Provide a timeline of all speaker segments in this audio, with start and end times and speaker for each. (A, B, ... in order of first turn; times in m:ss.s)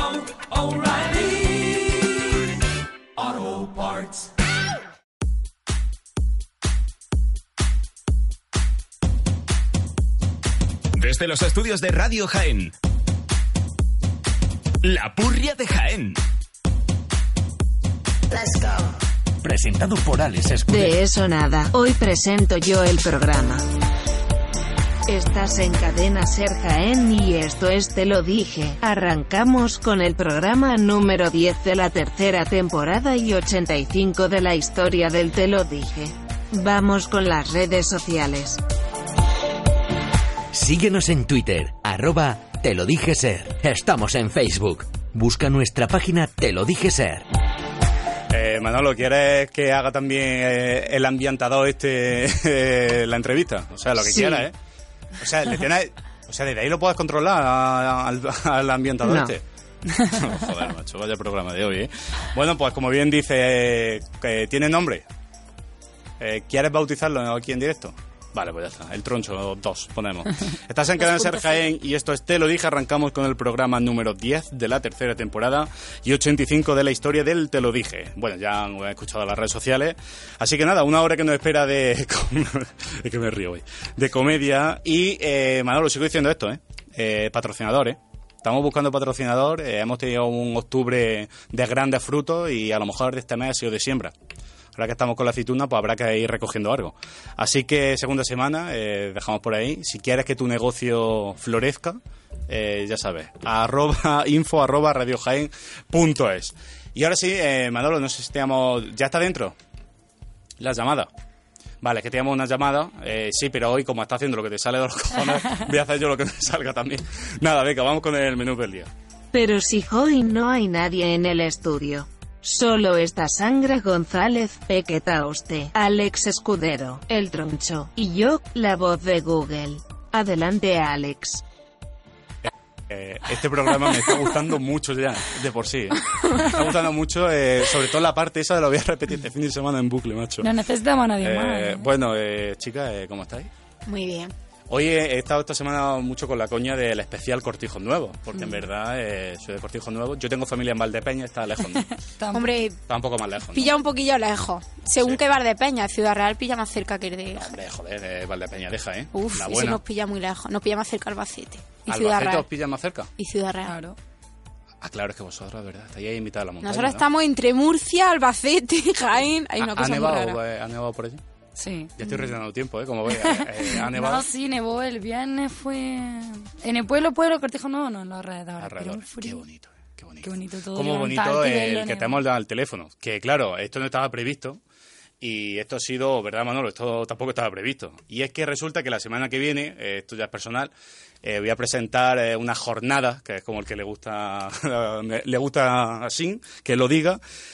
0:03.2-0:04.1 A
0:10.9-0:12.7 A
0:14.8-0:16.2 A
0:19.4-0:21.0 B
0:20.7-0:23.6 C
0:25.1-0:38.6 C
0:40.5-0:47.3 B
0:48.3-0:54.5 D
0:54.0-0:54.5 C
0:55.2-0:59.4 D
0:59.0-0:59.3 C
1:00.0-1:05.0 D
1:06.2-1:34.1 D
1:34.8-1:49.6 D
1:50.6-1:51.1 D
1:51.8-1:58.9 D
1:59.3-2:11.4 C
2:12.4-2:20.5 D
2:20.4-2:21.9 E
2:21.2-2:23.5 D
2:23.8-2:24.3 F
2:24.7-2:31.9 D
2:32.2-2:32.6 E
2:32.3-2:32.8 F
2:32.9-2:33.7 D
2:33.5-2:37.6 F
2:37.4-2:39.8 D
2:39.1-2:42.5 F
2:41.9-2:43.1 D
2:43.2-2:43.7 F
2:43.6-2:44.0 E
2:44.8-2:47.0 D
2:46.6-2:50.4 F
2:49.6-2:51.2 D
2:51.6-2:52.3 E
2:52.0-2:54.3 D
2:53.1-2:59.4 E
2:58.6-3:04.6 D
3:00.2-3:02.2 E
3:05.2-3:10.7 D
3:11.2-3:17.2 D